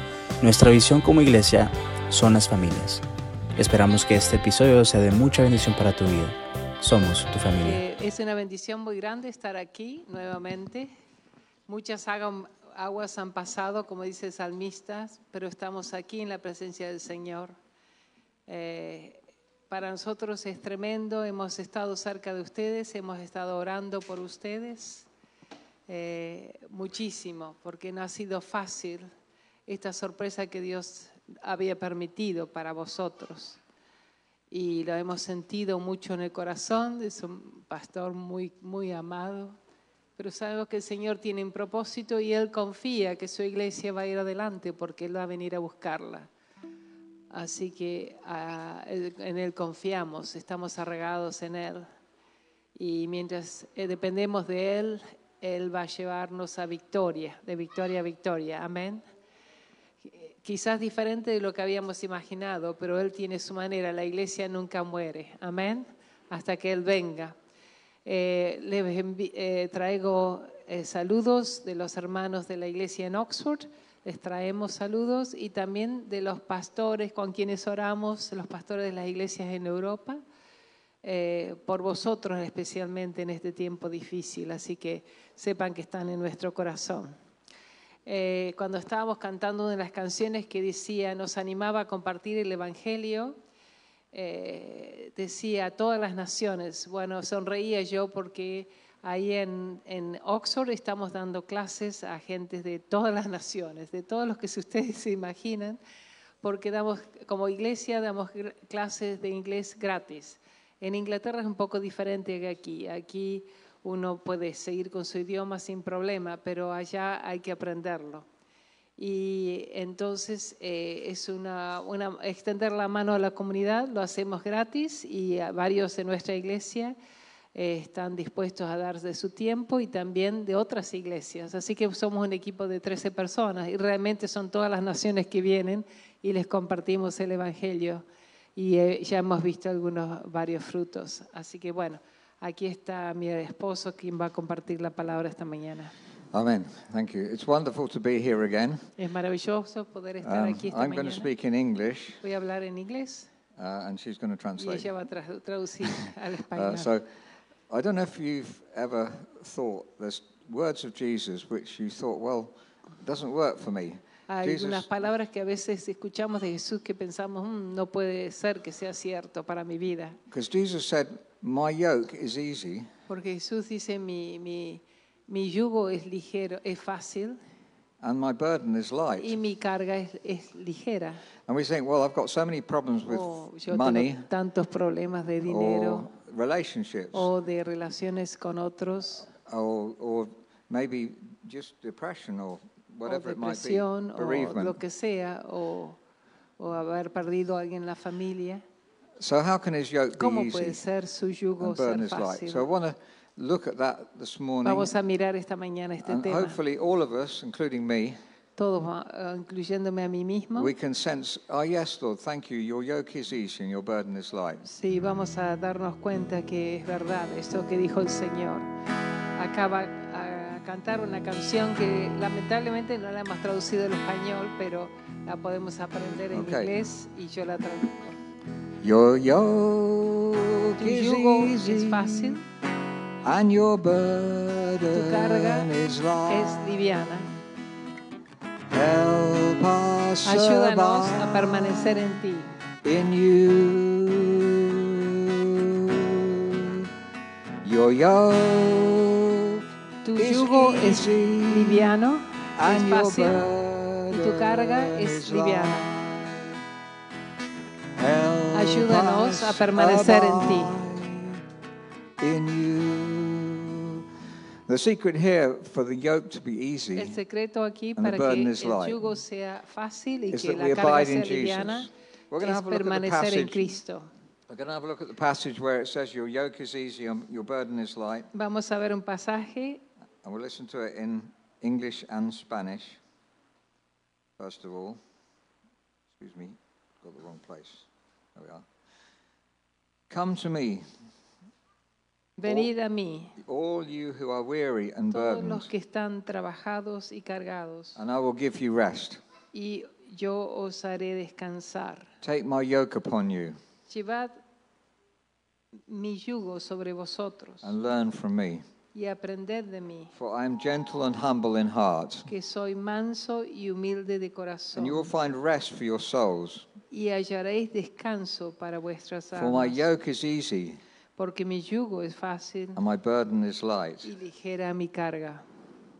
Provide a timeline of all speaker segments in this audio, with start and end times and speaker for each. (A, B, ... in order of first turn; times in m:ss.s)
0:00.4-0:03.0 A
0:03.6-0:07.8 A
0:07.6-0:10.9 B
0:11.7-0:17.5 B
0:18.5-0:25.1 B
0:25.9-0:29.1 B
0:29.7-0:33.6 B
0:34.5-0:39.6 B
0:40.2-0:46.3 B
0:47.3-0:51.9 B
0:52.8-0:59.0 B
1:00.2-1:07.4 B
1:08.0-1:20.2 B
1:21.0-1:27.1 B
1:28.0-1:33.4 B
1:34.1-1:45.8 B
1:46.4-1:58.2 B
1:59.0-2:07.0 B
2:07.5-2:18.0 B
2:18.6-2:25.9 B
2:26.3-2:28.9 C
2:29.0-2:31.3 B
2:30.2-2:32.2 C
2:32.2-2:33.3 B
2:33.6-2:34.9 C
2:34.6-2:36.9 B
2:36.5-2:37.0 C
2:37.7-2:44.9 C
2:44.3-2:50.2 B
2:50.3-2:52.9 C
2:53.1-2:57.4 B
2:58.0-2:59.4 C
2:59.2-3:01.2 B
3:01.5-3:04.3 C
3:03.1-3:06.1 B
3:05.4-3:07.3 C
3:07.1-3:09.3 B
3:09.4-3:14.8 C
3:13.0-3:16.0 B
3:16.6-3:18.6 B
3:19.2-3:20.8 C
3:20.2-3:22.7 B
3:21.6-3:24.9 C
3:24.6-3:26.6 B
3:26.0-3:28.2 C
3:28.6-3:30.7 B
3:30.6-3:34.6 C
3:34.6-3:38.7 B
3:39.4-3:48.2 B
3:46.3-3:46.7 C
3:48.8-3:52.4 C
3:50.8-3:52.4 B
3:53.2-3:56.7 C
3:54.9-3:55.7 B
3:56.3-3:57.3 B
3:58.7-4:02.0 C
4:00.2-4:02.5 B
4:02.8-4:06.9 C
4:07.6-4:09.6 C
4:10.0-4:13.4 B
4:10.2-4:12.0 C
4:12.6-4:16.6 C
4:14.1-4:15.8 B
4:18.0-4:21.4 C
4:18.5-4:20.8 B
4:22.2-4:24.0 C
4:24.7-4:27.2 C
4:26.9-4:31.9 B
4:28.0-4:29.0 C
4:30.3-4:33.7 C
4:32.4-4:34.1 B
4:34.5-4:38.3 C
4:38.3-4:39.8 B
4:40.2-4:43.0 C
4:44.4-4:45.0 C
4:46.1-4:48.6 C
4:50.1-4:50.9 C
4:52.4-4:53.4 B
4:53.4-4:55.7 C
4:55.1-4:58.0 B
4:58.0-4:59.2 C
4:59.5-5:02.1 B
5:02.2-5:03.6 C
5:03.9-5:04.4 B
5:05.9-5:07.7 B
5:07.6-5:08.6 C
5:08.9-5:10.1 B
5:10.1-5:12.3 C
5:12.3-5:15.1 B
5:14.8-5:16.7 C
5:16.9-5:19.8 B
5:19.3-5:20.8 C
5:21.2-5:22.8 B
5:22.7-5:24.1 C
5:24.0-5:25.4 B